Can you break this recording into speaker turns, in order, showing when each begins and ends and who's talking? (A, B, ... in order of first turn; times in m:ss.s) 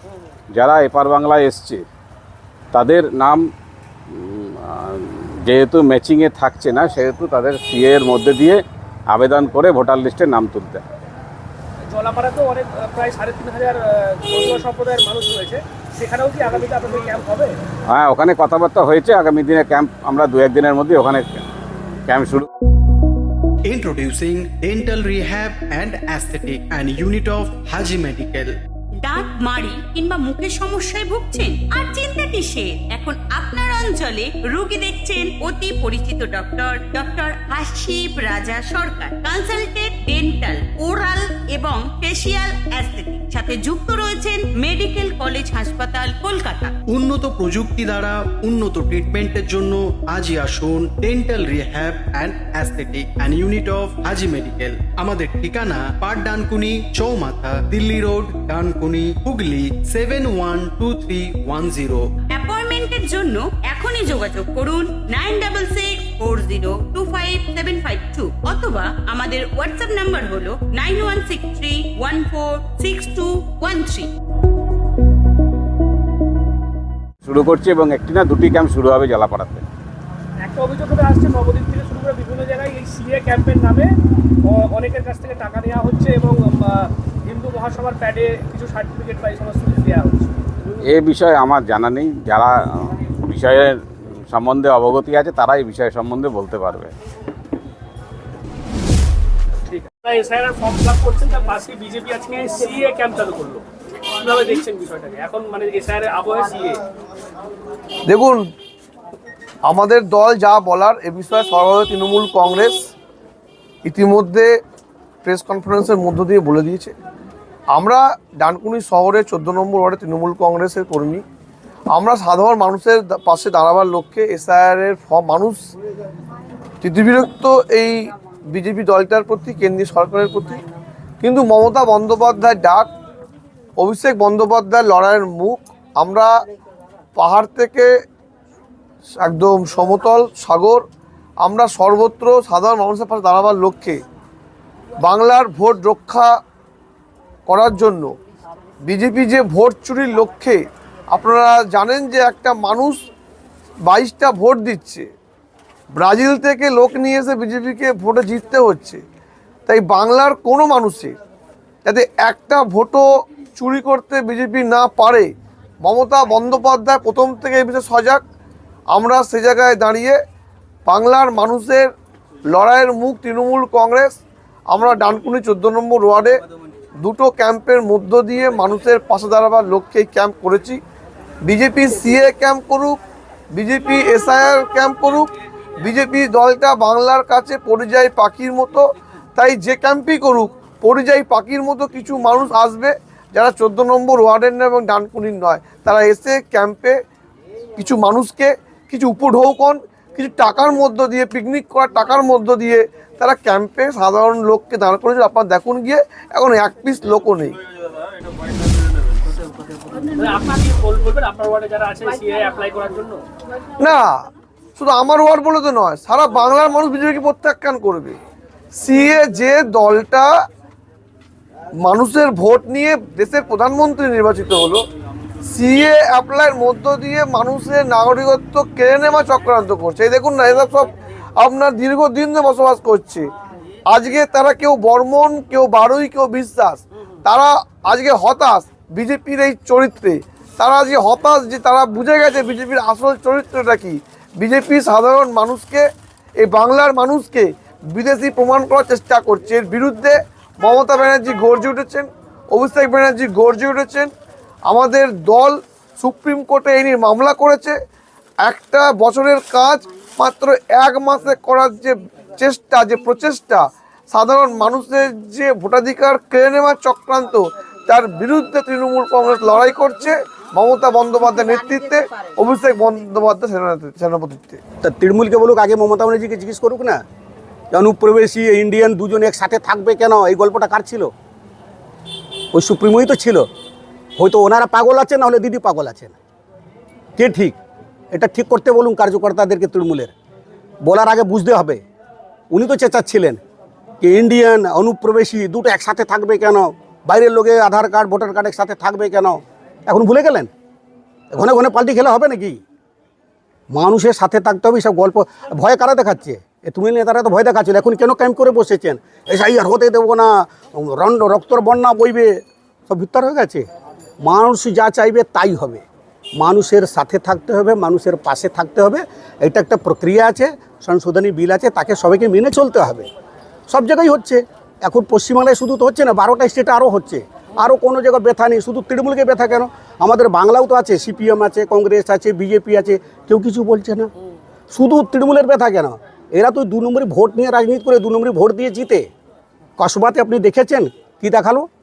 0:00.5-0:01.8 A
0:02.7-0:03.4 A
0:04.1-0:10.8 A
0:11.9-0:17.5 B
0:17.9-0:21.4 A
0:22.1-0:22.5 A
0:23.6-0:28.6 C
0:29.0-0:46.7 D
0:46.9-1:02.1 C
1:02.3-1:14.1 D
1:17.2-1:19.6 A
1:20.4-1:23.9 B
1:24.5-1:30.3 B
1:30.8-1:33.8 A
1:34.3-1:36.9 A
1:39.7-1:46.8 B
1:48.1-1:48.4 E
1:49.6-1:52.8 E
1:53.8-1:54.5 E
1:55.2-1:57.0 E
1:57.7-2:01.2 E
2:01.9-2:05.6 E
2:06.8-2:10.6 E
2:11.2-2:12.9 E
2:13.8-2:16.3 E
2:17.2-2:17.9 E
2:19.2-2:20.8 E
2:21.4-2:24.0 E
2:25.0-2:26.3 E
2:27.5-2:28.1 E
2:28.8-2:33.0 E
2:33.9-2:35.1 E
2:36.0-2:39.0 E
2:39.7-2:41.1 E
2:41.8-2:43.0 E
2:43.6-2:45.3 E
2:45.8-2:48.2 E
2:48.9-2:50.2 E
2:50.9-2:51.9 E
2:52.5-2:54.2 E
2:54.7-2:56.4 E
2:57.0-3:00.8 E
3:01.5-3:03.0 E
3:03.5-3:05.3 E
3:05.8-3:08.8 E
3:09.4-3:17.0 E
3:17.8-3:27.6 E
3:30.2-3:33.2 B
3:33.8-3:34.2 E
3:34.8-3:38.2 E
3:38.8-3:40.3 E
3:41.8-3:44.8 E
3:45.5-3:53.3 E
3:53.9-4:05.8 E
4:06.4-4:14.1 E
4:14.7-4:17.8 E
4:18.4-4:34.6 E
4:34.8-4:37.0 F
4:37.7-4:41.1 F
4:42.5-4:43.4 F
4:44.2-4:46.1 F
4:47.2-4:47.6 F
4:48.1-4:50.1 F
4:50.8-4:51.8 F
4:52.5-4:53.4 F
4:54.0-5:00.5 F
5:01.3-5:02.6 F
5:03.7-5:12.4 F
5:12.9-5:13.6 F
5:14.2-5:15.8 F
5:16.4-5:23.1 F
5:23.7-5:34.1 F
5:34.7-5:39.1 F
5:39.8-5:41.7 F